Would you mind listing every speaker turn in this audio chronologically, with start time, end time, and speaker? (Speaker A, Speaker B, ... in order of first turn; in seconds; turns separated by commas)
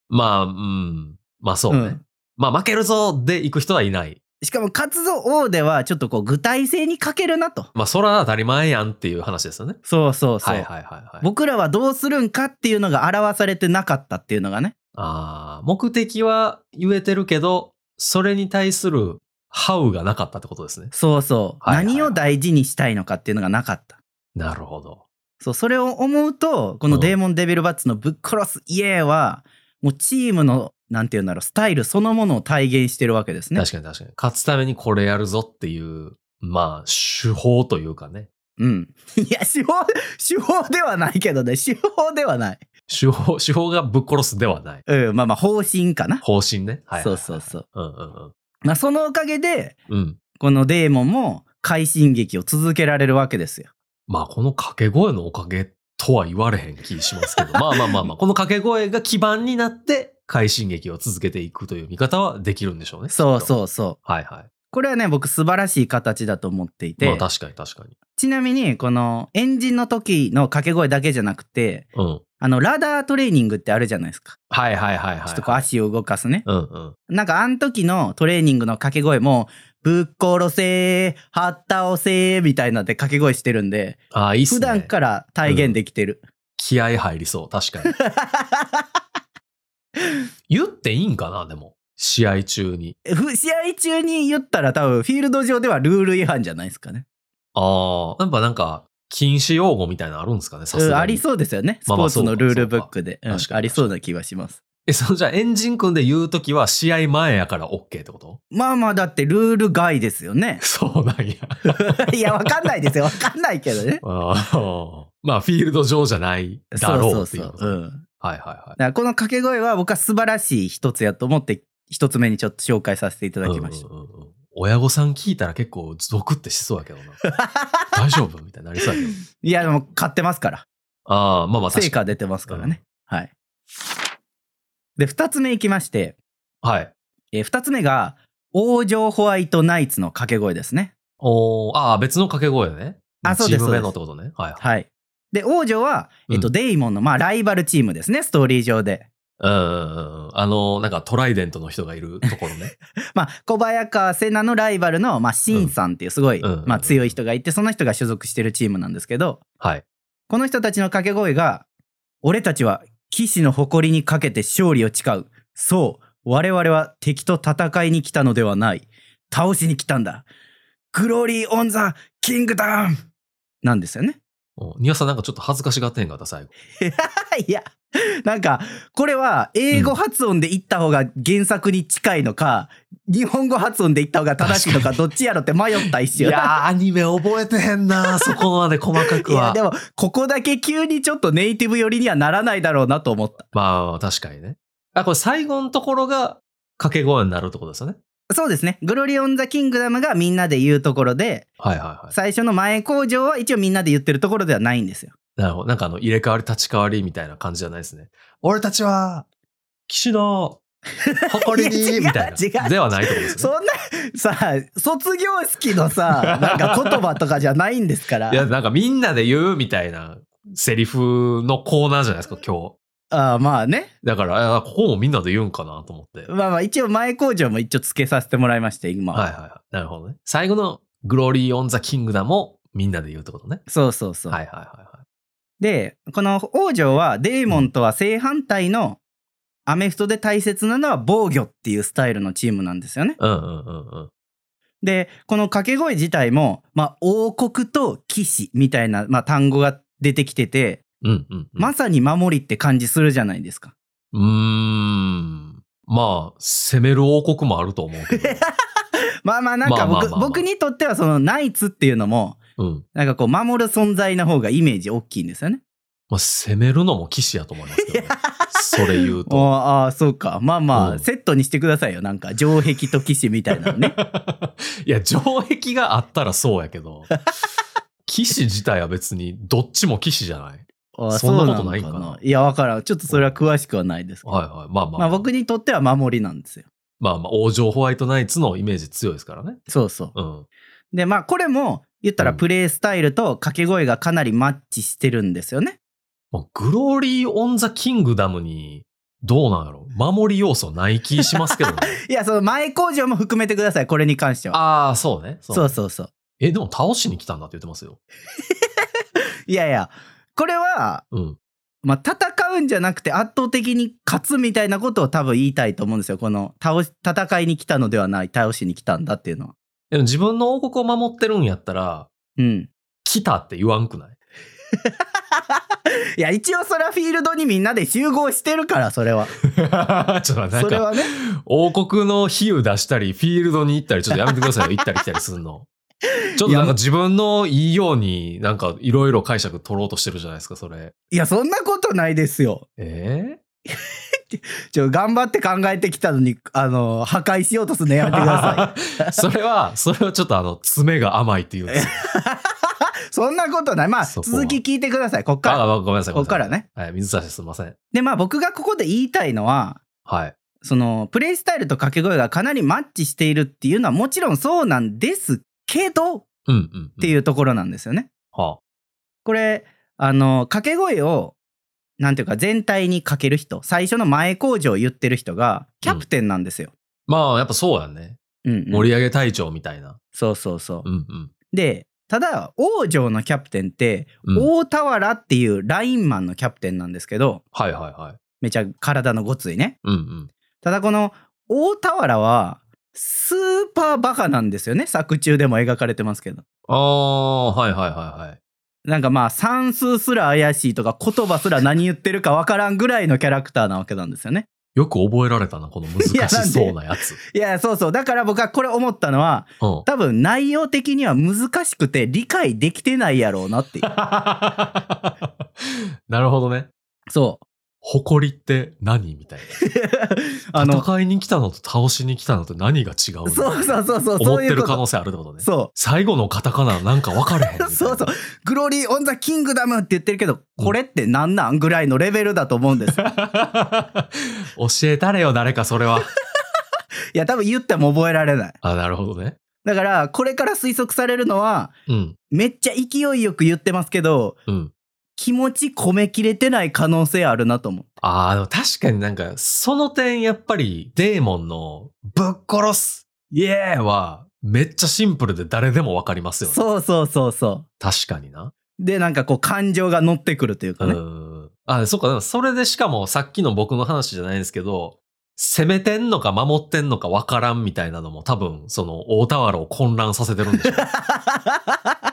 Speaker A: 0.1-4.2, Speaker B: 1.7-2.0, Speaker B: 4.4-7.7, Speaker A: 7.7-9.8, Speaker B: 9.8-10.7, Speaker A: 10.4-11.3, Speaker B: 11.2-14.7, Speaker A: 14.9-20.9, Speaker B: 20.9-24.0, Speaker A: 21.6-22.2, Speaker A: 24.3-25.0, Speaker B: 25.4-33.6, Speaker A: 26.9-27.1, Speaker A: 33.5-38.3, Speaker B: 38.6-42.6, Speaker A: 42.9-44.8, Speaker B: 44.9-46.2, Speaker A: 46.2-48.3, Speaker B: 47.0-47.6, Speaker B: 48.6-49.8, Speaker A: 49.9-50.2, Speaker B: 50.4-53.7, Speaker A: 54.1-63.5, Speaker B: 57.3-58.0, Speaker B: 63.1-64.0, Speaker A: 64.0-64.5, Speaker B: 64.7-67.2, Speaker A: 67.0-67.9, Speaker B: 68.1-71.9, Speaker A: 71.9-72.2, Speaker B: 72.4-74.4, Speaker A: 74.5-75.7, Speaker B: 75.3-76.5, Speaker A: 76.5-76.9, Speaker B: 77.1-86.2, Speaker A: 84.1-84.9, Speaker A: 85.4-85.8, Speaker A: 86.6-87.9, Speaker B: 87.8-88.8, Speaker A: 90.5-93.0, Speaker B: 93.0-97.0, Speaker A: 97.5-101.2, Speaker B: 100.7-104.6, Speaker A: 101.9-104.0, Speaker A: 104.8-108.4, Speaker B: 108.5-110.6, Speaker A: 110.6-112.6, Speaker B: 111.8-114.0, Speaker A: 114.0-118.8, Speaker B: 116.7-118.0, Speaker B: 118.8-123.8, Speaker A: 123.4-127.2, Speaker B: 127.2-128.0, Speaker A: 127.9-129.1, Speaker B: 129.0-130.7, Speaker A: 131.1-132.8, Speaker B: 131.7-133.3, Speaker B: 135.0-136.2, Speaker A: 136.6-136.9, Speaker B: 137.3-140.9, Speaker A: 141.2-144.6, Speaker B: 143.2-143.9, Speaker B: 144.6-149.1, Speaker A: 149.4-152.7, Speaker B: 153.1-159.4, Speaker A: 156.4-157.2, Speaker B: 160.3-161.7, Speaker B: 162.2-170.3, Speaker B: 170.9-173.0, Speaker B: 173.6-174.2, Speaker A: 174.6-176.5, Speaker B: 176.8-186.5, Speaker A: 184.4-185.0, Speaker A: 185.8-189.6, Speaker B: 188.0-188.4, Speaker B: 189.0-193.5, Speaker A: 193.5-198.0, Speaker B: 198.3-201.5, Speaker A: 201.6-202.1, Speaker B: 202.1-205.1, Speaker A: 205.4-209.2, Speaker A: 209.9-210.6, Speaker B: 211.1-218.5, Speaker A: 211.3-213.5, Speaker A: 216.2-217.0, Speaker A: 218.3-222.8, Speaker B: 223.1-223.9, Speaker A: 224.0-226.3, Speaker B: 226.3-229.2, Speaker A: 229.1-233.6, Speaker B: 233.7-234.4, Speaker A: 234.3-235.0, Speaker B: 235.6-239.0, Speaker B: 239.7-243.2, Speaker A: 243.2-244.1, Speaker B: 244.8-250.8, Speaker A: 251.0-251.7, Speaker B: 251.6-253.7, Speaker A: 254.1-258.4, Speaker B: 258.1-258.4, Speaker B: 259.2-262.4, Speaker A: 259.6-260.4, Speaker A: 262.6-262.8, Speaker B: 262.9-265.6, Speaker A: 266.1-269.5, Speaker B: 267.9-273.9, Speaker A: 270.7-271.1, Speaker A: 273.6-277.1, Speaker A: 278.1-282.2, Speaker B: 280.9-284.2, Speaker A: 283.1-283.4, Speaker A: 284.2-285.3, Speaker B: 284.9-286.6, Speaker A: 287.0-289.6, Speaker B: 289.7-290.1, Speaker A: 290.1-290.4, Speaker B: 290.9-295.8, Speaker A: 296.3-302.0, Speaker B: 301.5-304.6, Speaker A: 304.5-305.8, Speaker B: 305.5-306.1, Speaker A: 306.4-308.0, Speaker B: 308.5-308.8, Speaker B: 309.5-311.0, Speaker A: 311.1-311.4, Speaker B: 311.8-319.5, Speaker A: 319.9-322.1, Speaker B: 322.4-322.7, Speaker A: 323.0-324.2, Speaker B: 326.2-329.3, Speaker A: 329.5-335.7, Speaker B: 330.5-331.1, Speaker B: 336.1-336.8, Speaker A: 336.4-340.9, Speaker B: 341.1-342.6, Speaker A: 342.8-343.4, Speaker B: 344.3-349.1, Speaker A: 348.1-352.0, Speaker B: 351.7-356.6, Speaker A: 354.0-354.6, Speaker A: 355.4-357.8, Speaker B: 357.9-359.8, Speaker A: 360.1-360.4, Speaker B: 360.6-366.3, Speaker A: 366.5-367.2, Speaker B: 367.0-368.1, Speaker A: 368.3-368.6, Speaker B: 369.2-371.3, Speaker B: 372.0-376.7, Speaker A: 377.1-378.2, Speaker B: 378.4-378.9, Speaker A: 378.7-380.0, Speaker B: 380.1-380.9, Speaker A: 380.8-381.3, Speaker B: 381.5-387.4, Speaker A: 384.2-384.5, Speaker A: 387.5-388.2, Speaker B: 388.4-389.8, Speaker A: 389.8-390.3, Speaker B: 390.6-396.4, Speaker A: 396.7-398.4, Speaker B: 398.9-404.5, Speaker A: 404.7-407.2, Speaker B: 406.0-406.8, Speaker B: 407.3-413.9, Speaker A: 409.6-409.9, Speaker A: 413.8-416.7, Speaker B: 417.1-417.4, Speaker A: 417.8-419.6, Speaker B: 419.6-420.9, Speaker A: 420.6-428.1, Speaker B: 423.2-424.8, Speaker B: 425.4-425.7, Speaker B: 427.6-433.0, Speaker A: 432.9-436.1, Speaker B: 437.1-438.6, Speaker A: 438.6-439.4, Speaker B: 439.6-441.7, Speaker A: 441.9-442.2, Speaker B: 442.3-444.4, Speaker A: 444.5-444.7, Speaker B: 445.1-447.9, Speaker A: 448.0-456.6, Speaker B: 456.4-457.6, Speaker A: 457.8-458.5, Speaker B: 458.8-461.0, Speaker A: 460.8-470.9, Speaker B: 470.6-471.9